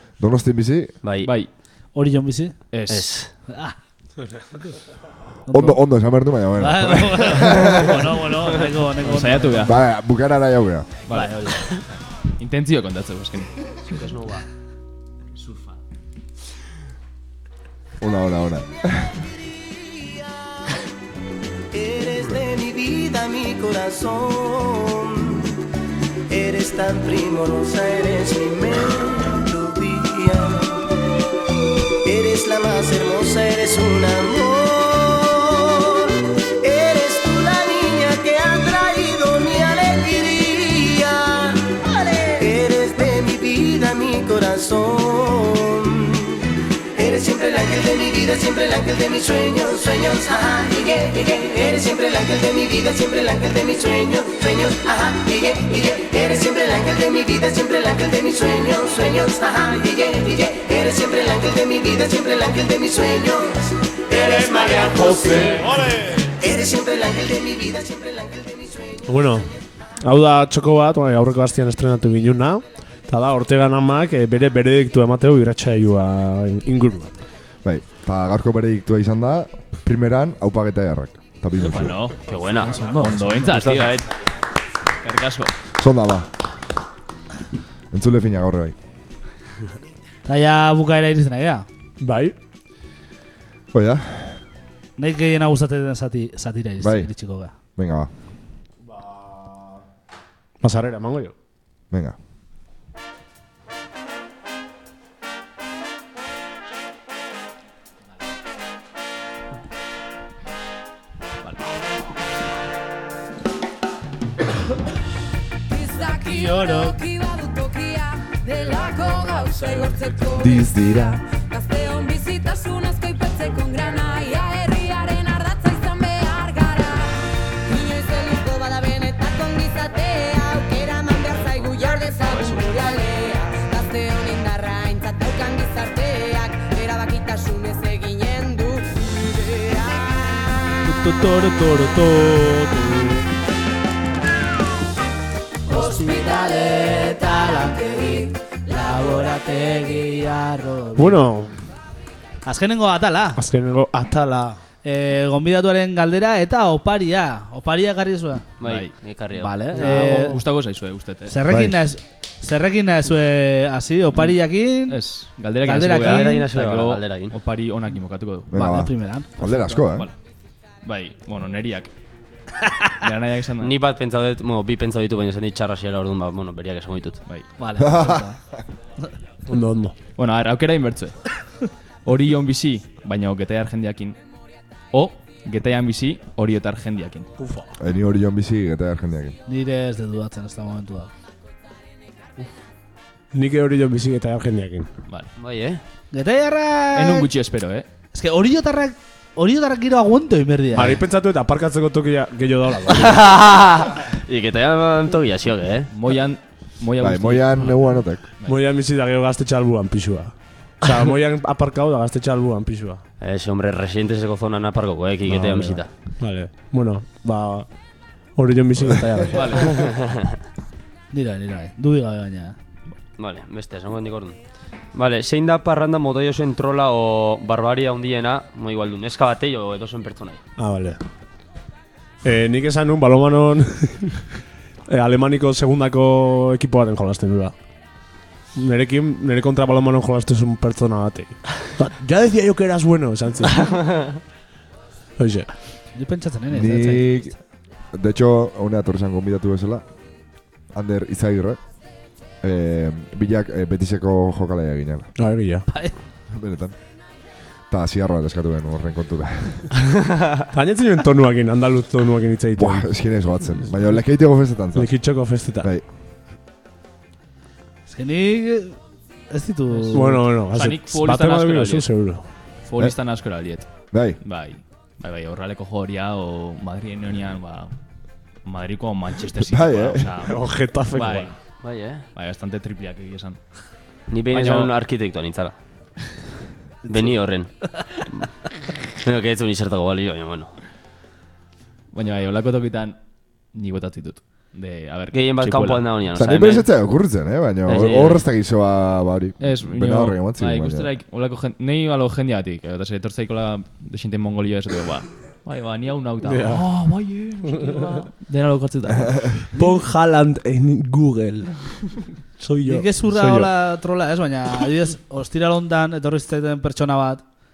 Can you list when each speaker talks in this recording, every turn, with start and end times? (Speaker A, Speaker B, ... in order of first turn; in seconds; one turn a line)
Speaker A: 0.2-0.9
Speaker B: 1.0-1.3
Speaker C: 1.2-1.5
Speaker D: 1.9-2.6
Speaker C: 2.7-3.1
Speaker B: 2.9-3.3
Speaker D: 3.5-3.8
Speaker D: 5.5-5.8
Speaker A: 5.5-8.2
Speaker D: 6.6-9.7
Speaker C: 9.0-9.8
Speaker A: 9.6-10.9
Speaker C: 11.1-11.8
Speaker D: 11.1-11.7
Speaker C: 12.4-13.8
Speaker B: 13.9-14.4
Speaker A: 18.0-19.2
Speaker E: 19.8-20.2
Speaker E: 21.7-25.6
Speaker E: 26.3-31.0
Speaker E: 32.0-69.1
Speaker F: 69.1-77.1
Speaker A: 77.6-82.0
Speaker C: 81.6-82.3
Speaker B: 82.3-82.8
Speaker D: 82.6-83.6
Speaker C: 82.9-84.0
Speaker B: 83.4-84.0
Speaker C: 85.0-85.5
Speaker A: 85.8-86.3
Speaker A: 87.9-88.8
Speaker D: 90.3-91.7
Speaker F: 92.0-92.3
Speaker A: 93.7-94.4
Speaker D: 95.0-97.5
Speaker A: 96.8-97.1
Speaker A: 97.8-98.1
Speaker F: 100.6-101.3
Speaker A: 101.9-102.2
Speaker G: 115.7-140.2
Speaker D: 116.2-117.0
Speaker A: 120.4-121.2
Speaker C: 132.3-132.9
Speaker D: 140.8-143.3
Speaker D: 145.7-151.2
Speaker G: 145.7-149.4
Speaker F: 150.9-151.5
Speaker D: 152.4-153.4
Speaker F: 153.4-154.6
Speaker D: 154.8-158.4
Speaker B: 158.6-160.3
Speaker C: 158.6-158.9
Speaker D: 159.4-160.4
Speaker C: 159.7-161.4
Speaker D: 161.3-165.0
Speaker A: 161.5-161.8
Speaker C: 164.9-168.5
Speaker D: 165.6-166.5
Speaker B: 165.8-167.3
Speaker A: 168.5-170.1
Speaker D: 168.5-169.8
Speaker C: 169.8-170.1
Speaker C: 170.8-171.9
Speaker C: 173.0-173.8
Speaker B: 173.6-177.2
Speaker D: 177.6-178.4
Speaker A: 177.8-178.2
Speaker F: 179.5-179.9
Speaker C: 180.2-181.4
Speaker C: 182.1-184.2
Speaker C: 184.9-187.3
Speaker F: 187.4-187.7
Speaker A: 187.8-189.4
Speaker D: 189.5-191.1
Speaker F: 193.3-194.9
Speaker B: 195.4-195.8
Speaker D: 196.1-197.3
Speaker C: 196.9-197.9
Speaker D: 198.1-201.0
Speaker F: 200.7-203.3
Speaker B: 202.9-205.9
Speaker C: 205.9-208.5
Speaker A: 207.0-208.3
Speaker F: 208.4-213.0
Speaker B: 213.2-215.9
Speaker F: 215.3-217.7
Speaker F: 218.3-219.7
Speaker C: 219.3-219.8
Speaker B: 219.7-220.3
Speaker D: 221.1-222.6
Speaker B: 223.2-224.4
Speaker B: 224.9-230.4
Speaker F: 230.6-231.0
Speaker F: 232.2-234.3
Speaker F: 234.9-237.6
Speaker F: 238.6-243.9
Speaker F: 245.2-245.5
Speaker D: 245.9-247.3
Speaker A: 246.5-247.3
Speaker A: 247.9-249.8
Speaker A: 250.7-251.6
Speaker A: 252.4-255.1
Speaker F: 255.2-255.7
Speaker A: 256.3-256.8
Speaker A: 257.7-259.8
Speaker F: 260.5-262.9
Speaker A: 262.6-265.8
Speaker F: 264.8-265.7
Speaker D: 267.9-268.8
Speaker D: 269.3-270.3
Speaker C: 269.7-271.9
Speaker F: 269.9-272.2
Speaker C: 272.6-277.7
Speaker A: 273.9-274.2
Speaker C: 278.4-281.3
Speaker A: 279.4-280.1
Speaker F: 280.2-281.3
Speaker B: 281.6-282.1
Speaker C: 282.1-283.4
Speaker B: 284.1-285.5
Speaker C: 284.3-284.7
Speaker B: 286.9-288.3
Speaker B: 289.0-290.5
Speaker C: 291.9-293.0
Speaker C: 293.5-296.0
Speaker B: 295.1-296.7
Speaker A: 296.1-300.9
Speaker B: 297.7-298.2
Speaker C: 299.4-309.4
Speaker F: 306.2-306.7
Speaker F: 307.5-308.0
Speaker F: 309.5-313.5
Speaker D: 312.6-317.2